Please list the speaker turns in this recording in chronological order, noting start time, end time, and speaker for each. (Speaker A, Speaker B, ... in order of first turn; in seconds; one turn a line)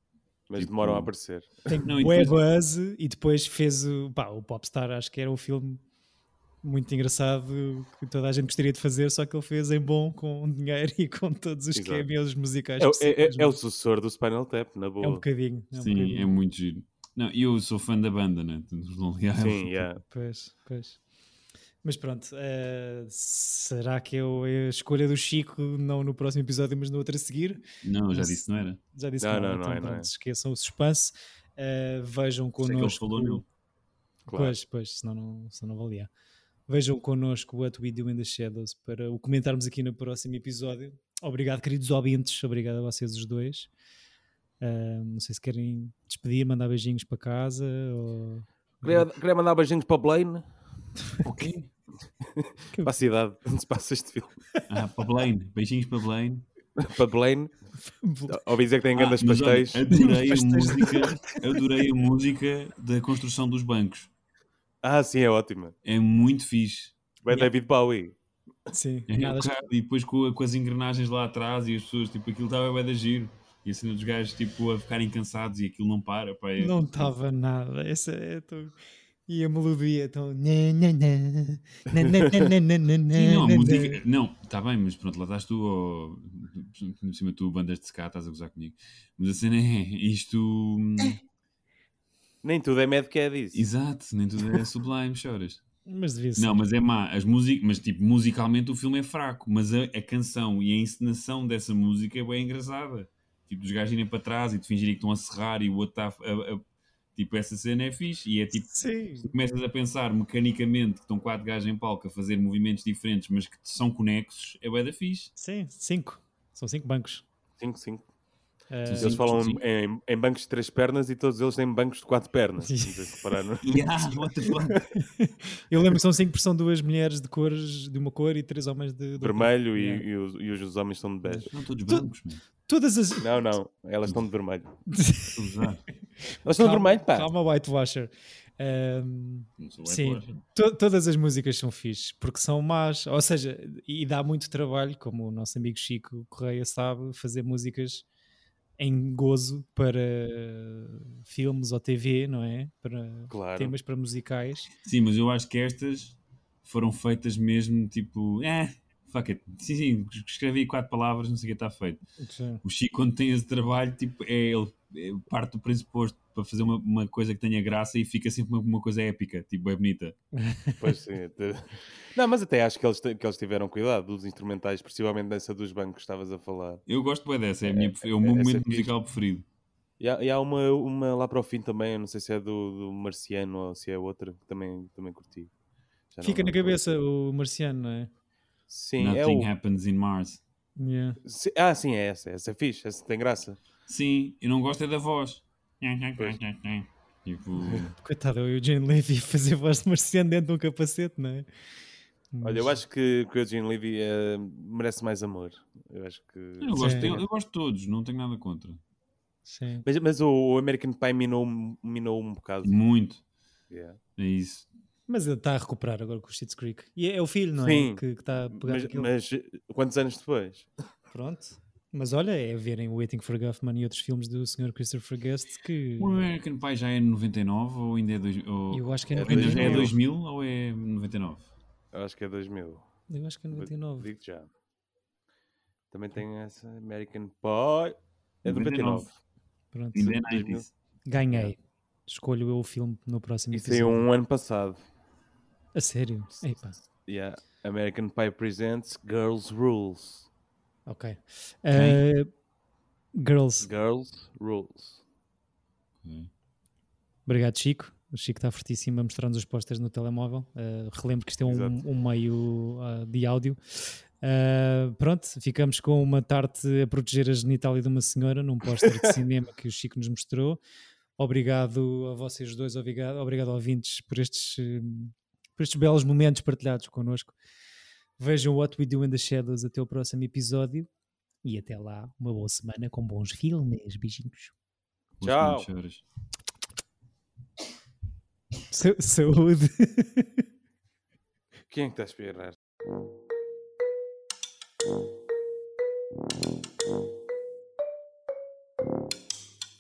Speaker A: 0.5-1.7
Speaker B: 0.6-1.1
Speaker C: 1.7-5.8
Speaker B: 1.8-2.4
Speaker C: 6.6-13.6
Speaker A: 11.8-12.1
Speaker A: 12.8-15.2
Speaker C: 15.0-16.3
Speaker B: 15.7-19.9
Speaker A: 19.4-20.0
Speaker C: 20.1-21.0
Speaker C: 21.8-33.4
Speaker B: 27.8-28.8
Speaker A: 29.2-30.1
Speaker B: 32.6-33.5
Speaker A: 34.3-34.5
Speaker C: 34.3-36.1
Speaker C: 36.7-43.7
Speaker C: 44.6-49.1
Speaker A: 48.8-50.5
Speaker B: 51.2-51.7
Speaker A: 52.2-54.4
Speaker C: 52.7-53.0
Speaker B: 54.7-56.5
Speaker A: 56.8-57.5
Speaker C: 57.8-58.4
Speaker A: 58.3-59.9
Speaker B: 59.0-64.1
Speaker C: 59.9-61.4
Speaker A: 64.8-65.8
Speaker B: 65.8-67.0
Speaker A: 67.2-68.2
Speaker C: 68.7-69.6
Speaker B: 69.1-77.1
Speaker C: 76.6-78.8
Speaker C: 79.3-84.0
Speaker A: 82.0-82.4
Speaker B: 83.1-91.2
Speaker A: 92.4-93.7
Speaker B: 93.5-95.6
Speaker C: 95.9-96.7
Speaker B: 96.4-106.6
Speaker B: 107.2-108.7
Speaker C: 108.7-109.3
Speaker B: 109.2-115.3
Speaker C: 115.4-117.2
Speaker A: 117.6-118.0
Speaker C: 118.7-119.2
Speaker B: 118.9-119.6
Speaker A: 119.0-123.9
Speaker C: 122.6-123.0
Speaker B: 123.6-124.8
Speaker A: 124.5-124.8
Speaker C: 125.0-130.1
Speaker A: 129.2-131.5
Speaker C: 131.2-132.1
Speaker B: 131.5-132.4
Speaker C: 132.7-133.3
Speaker A: 133.2-134.8
Speaker C: 134.9-135.7
Speaker B: 135.3-135.8
Speaker A: 136.4-137.3
Speaker C: 136.5-148.1
Speaker B: 139.6-140.4
Speaker C: 148.8-154.7
Speaker A: 153.3-153.8
Speaker B: 154.8-162.0
Speaker C: 162.2-162.6
Speaker B: 162.6-170.2
Speaker C: 170.4-170.8
Speaker A: 170.8-176.8
Speaker B: 176.9-179.4
Speaker A: 177.7-178.9
Speaker A: 180.0-185.5
Speaker A: 186.1-187.0
Speaker C: 186.2-188.1
Speaker A: 188.7-189.5
Speaker B: 189.0-190.4
Speaker C: 190.8-191.2
Speaker A: 191.2-193.6
Speaker B: 193.9-197.9
Speaker A: 197.6-197.9
Speaker C: 198.0-201.5
Speaker C: 202.3-202.8
Speaker A: 202.4-207.3
Speaker B: 206.6-208.8
Speaker C: 206.8-207.2
Speaker C: 209.5-209.8
Speaker A: 209.8-212.8
Speaker B: 212.6-213.2
Speaker A: 213.7-214.0
Speaker B: 214.2-214.7
Speaker C: 215.1-219.1
Speaker A: 217.6-220.7
Speaker C: 221.1-226.2
Speaker B: 226.0-231.5
Speaker C: 228.7-229.9
Speaker A: 229.2-230.0
Speaker A: 231.9-232.9
Speaker C: 233.1-234.1
Speaker A: 233.5-234.5
Speaker A: 235.9-239.1
Speaker B: 238.4-239.1
Speaker C: 239.7-240.1
Speaker B: 239.9-240.7
Speaker A: 240.0-240.7
Speaker C: 241.1-244.1
Speaker A: 243.5-244.8
Speaker C: 245.8-246.8
Speaker A: 246.8-250.3
Speaker C: 250.9-252.3
Speaker B: 251.7-252.0
Speaker C: 253.2-253.7
Speaker A: 253.6-255.0
Speaker B: 256.0-256.3
Speaker C: 257.3-270.6
Speaker A: 261.5-261.8
Speaker C: 271.2-277.4
Speaker C: 278.2-280.9
Speaker C: 281.4-284.5
Speaker A: 285.2-285.7
Speaker B: 285.2-286.0
Speaker C: 288.7-290.3
Speaker A: 291.7-292.6